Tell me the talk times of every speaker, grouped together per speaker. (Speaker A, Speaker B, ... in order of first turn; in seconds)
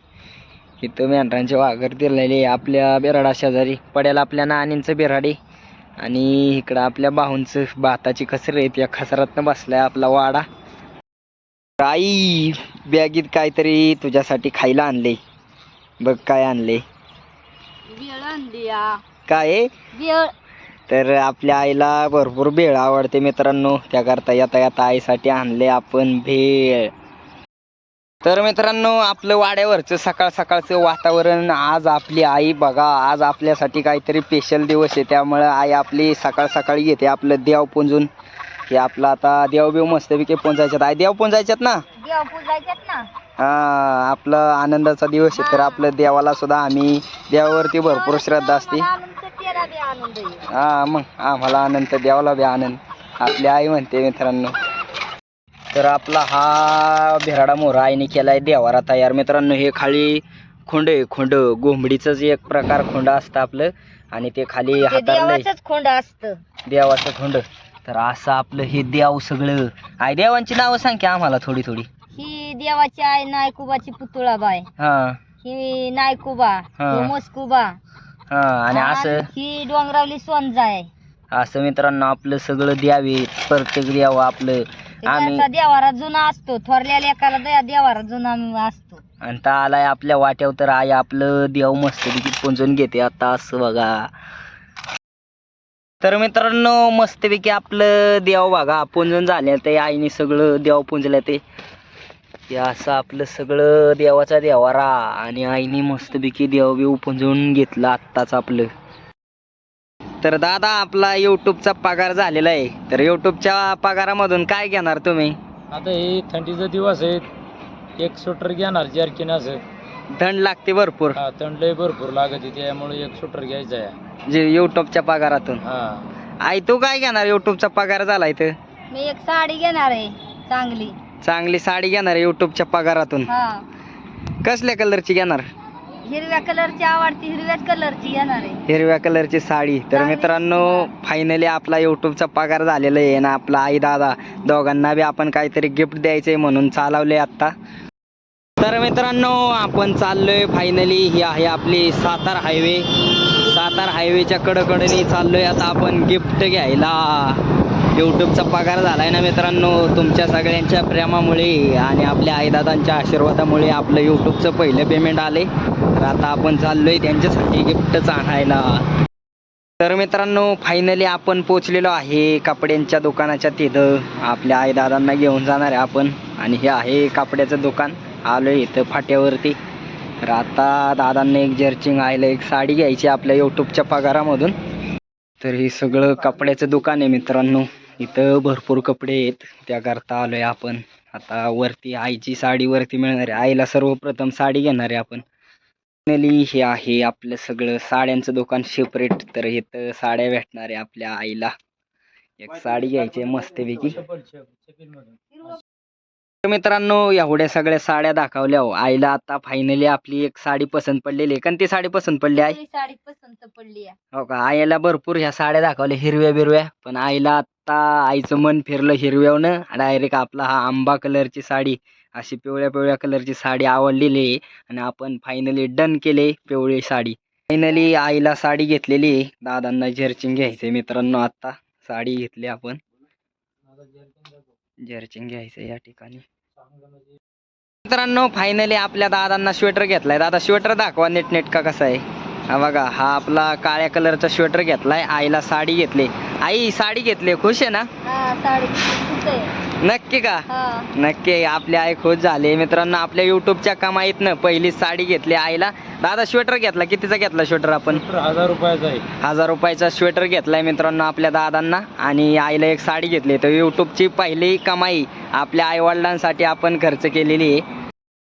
Speaker A: 0.8-5.4, 6.0-10.4, 11.8-15.2, 16.0-16.8, 19.3-19.7, 20.9-26.9, 28.2-38.1, 38.7-41.8, 43.4-48.9, 50.5-54.5, 55.7-65.5, 66.7-71.9, 74.8-75.2, 76.8-77.1, 78.3-79.3, 81.3-85.4, 89.2-94.1, 96.0-101.4, 102.5-108.7, 110.2-115.4, 120.1-121.2, 124.3-125.6, 126.4-128.5, 131.2-133.3, 134.4-135.4, 138.7-147.5, 148.6-168.8, 169.8-179.6, 180.2-184.5, 185.4-195.2, 196.1-201.5, 202.4-204.0, 206.4-212.6, 214.1-232.8, 234.8-236.2, 237.8-247.9, 249.7-258.0, 259.1-267.6
Speaker B: 17.9-19.0, 19.9-20.3, 42.0-43.1, 45.3-45.9, 47.8-50.5, 64.8-66.4, 72.1-74.7, 75.4-77.8, 78.7-80.9, 85.0-89.0, 128.9-131.0, 133.3-133.6, 136.1-138.6, 139.9-140.9, 205.3-205.6, 212.3-213.9, 248.0-249.5, 250.5-250.9
Speaker C: 115.7-117.3, 118.0-119.6, 121.2-124.0, 125.6-126.0, 204.0-205.2, 233.7-234.4, 236.6-237.2, 257.9-259.1